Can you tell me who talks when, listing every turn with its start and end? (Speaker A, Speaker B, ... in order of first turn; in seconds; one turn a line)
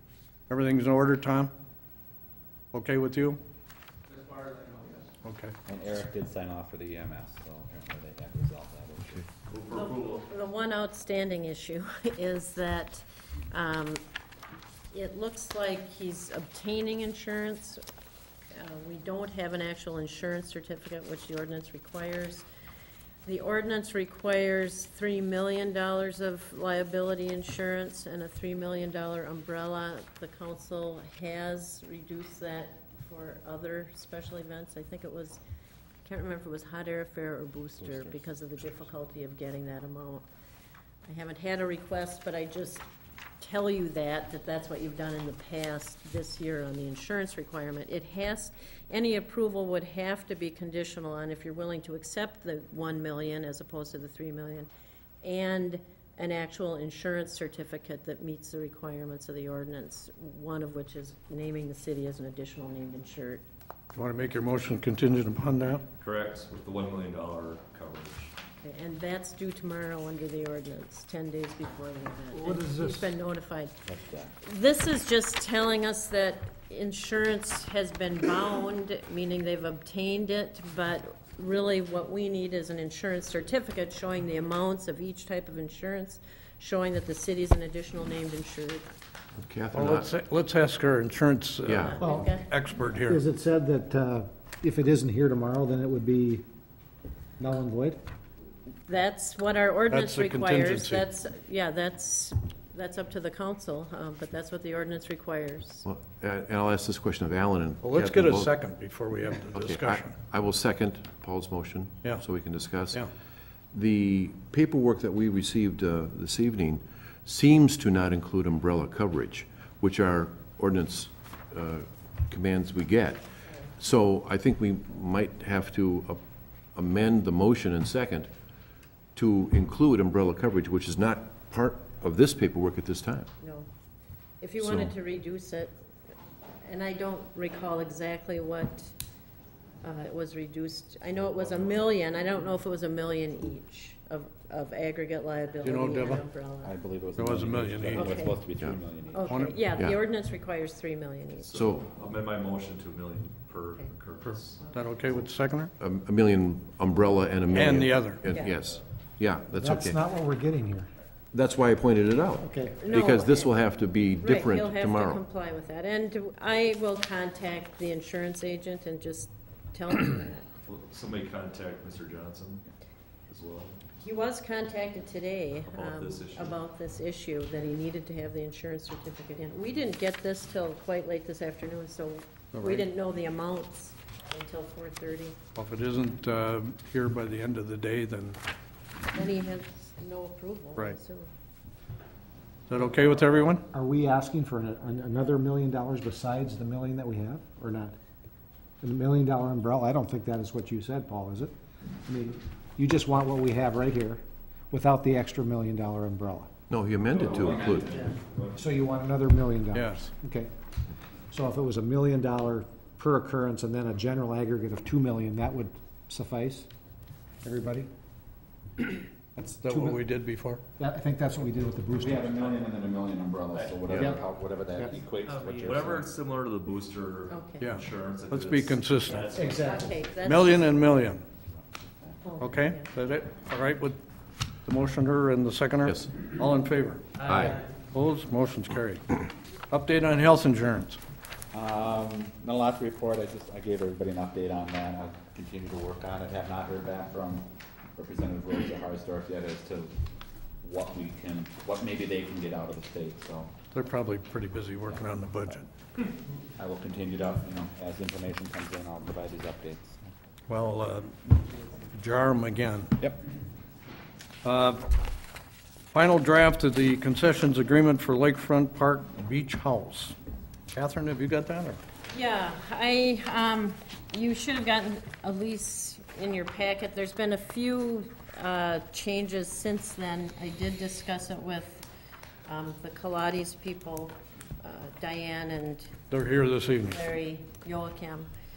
Speaker A: 0.5-1.5
Speaker A: 2.7-3.4
Speaker A: 5.2-5.5
Speaker B: 5.7-9.3
Speaker C: 9.5-10.3
Speaker D: 9.7-14.0
Speaker D: 14.9-17.8
Speaker D: 18.5-22.5
Speaker D: 23.2-35.4
Speaker D: 36.0-40.3
Speaker D: 41.0-42.9
Speaker D: 43.4-54.7
Speaker D: 55.2-63.4
Speaker A: 63.9-65.8
Speaker C: 66.0-68.3
Speaker D: 68.6-73.7
Speaker E: 72.3-73.1
Speaker B: 73.9-74.3
Speaker D: 74.4-88.9
Speaker F: 89.4-90.1
Speaker A: 89.7-93.2
Speaker F: 91.7-92.0
Speaker D: 91.8-92.5
Speaker E: 92.0-92.3
Speaker E: 93.1-96.5
Speaker E: 97.4-98.0
Speaker D: 98.9-105.8
Speaker A: 99.9-101.0
Speaker F: 105.8-108.6
Speaker A: 107.8-110.2
Speaker F: 109.5-113.1
Speaker F: 113.7-123.2
Speaker D: 123.5-123.7
Speaker F: 123.8-126.2
Speaker F: 126.8-128.3
Speaker F: 129.2-133.3
Speaker D: 133.4-133.7
Speaker D: 134.4-135.7
Speaker F: 134.6-134.9
Speaker D: 136.6-138.9
Speaker D: 139.8-146.7
Speaker A: 145.6-146.2
Speaker B: 146.6-149.4
Speaker A: 147.2-148.1
Speaker D: 147.9-148.5
Speaker D: 149.1-151.5
Speaker A: 149.3-149.6
Speaker C: 151.4-154.7
Speaker F: 151.5-151.9
Speaker A: 154.2-155.7
Speaker F: 155.8-160.0
Speaker A: 157.5-158.2
Speaker C: 158.3-158.8
Speaker D: 158.3-158.6
Speaker E: 159.6-160.9
Speaker F: 161.3-165.2
Speaker E: 162.4-162.8
Speaker D: 162.8-163.6
Speaker D: 164.2-170.5
Speaker C: 170.7-172.7
Speaker C: 173.3-173.8
Speaker D: 174.0-185.4
Speaker C: 175.7-176.6
Speaker A: 182.5-182.9
Speaker A: 185.6-188.4
Speaker D: 189.1-191.3
Speaker A: 192.7-193.7
Speaker E: 193.7-197.9
Speaker E: 198.8-201.5
Speaker E: 202.1-206.5
Speaker F: 206.7-207.9
Speaker C: 207.1-208.6
Speaker E: 208.6-210.5
Speaker A: 209.7-210.1
Speaker E: 211.3-216.7
Speaker E: 217.4-217.9
Speaker E: 219.4-220.0
Speaker A: 219.6-220.6
Speaker E: 220.8-222.3
Speaker B: 222.0-226.1
Speaker C: 222.3-222.7
Speaker C: 223.5-229.9
Speaker E: 223.9-224.2
Speaker D: 227.3-227.7
Speaker A: 227.6-229.3
Speaker E: 229.3-229.9
Speaker D: 229.5-230.8
Speaker A: 230.2-231.2
Speaker B: 231.6-232.2
Speaker D: 232.2-232.9
Speaker A: 232.4-234.0
Speaker A: 234.7-237.1
Speaker F: 237.2-237.6
Speaker A: 237.7-241.0
Speaker B: 241.5-249.9
Speaker B: 250.6-253.5
Speaker A: 253.7-255.7
Speaker B: 256.6-260.1
Speaker A: 260.5-261.3
Speaker A: 261.9-263.0
Speaker A: 264.4-264.9
Speaker A: 265.9-270.1
Speaker A: 270.7-271.8
Speaker D: 272.1-281.9
Speaker D: 282.5-286.0
Speaker A: 286.1-287.0
Speaker D: 286.9-288.3